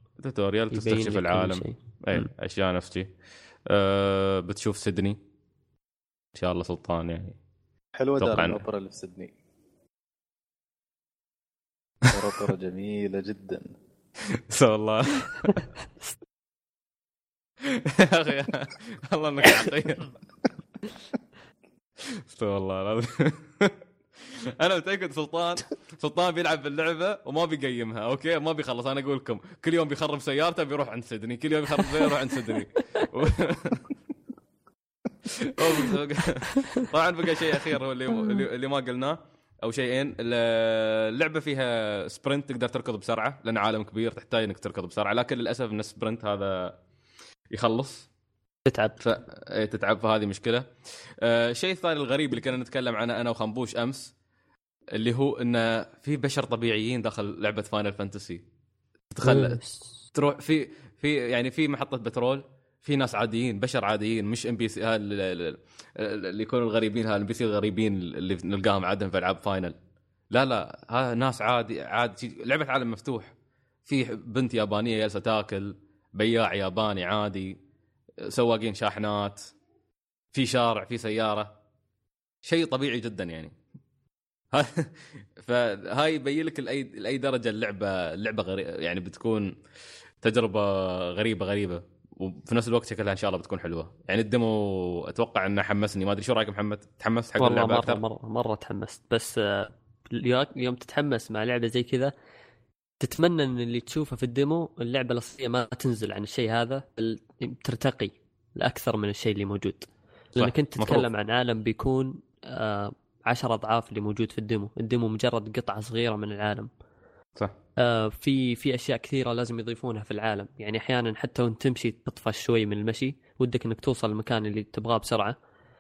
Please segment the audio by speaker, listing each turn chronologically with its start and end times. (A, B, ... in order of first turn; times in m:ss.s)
0:00.2-0:03.1 A
0:00.7-0:02.3 B
0:03.7-0:05.2 A
0:06.3-0:07.4 A
0:08.0-0:09.3 C
0:08.2-0:08.6 A
0:12.1-0:13.8 C
0:14.5-0:15.6 A
0:17.6-0:20.2 A
0:22.3-0:23.8 A
0:24.3-0:33.9 A
0:35.2-0:46.8 A
0:47.5-0:48.1 A
0:48.7-0:49.0 B
0:49.0-0:54.1 A
0:55.0-0:58.4 A
0:59.1-0:59.6 A
0:59.2-1:00.0 B
1:00.1-1:09.8 A
1:10.3-1:13.3 A
1:13.9-1:17.6 A
1:18.2-1:19.4 A
1:20.3-1:21.5 A
1:22.4-1:23.5 A
1:24.5-1:29.5 A
1:30.2-1:38.0 A
1:37.4-1:42.1 B
1:43.0-1:56.7 B
1:50.4-1:51.0 A
1:57.8-2:05.4 B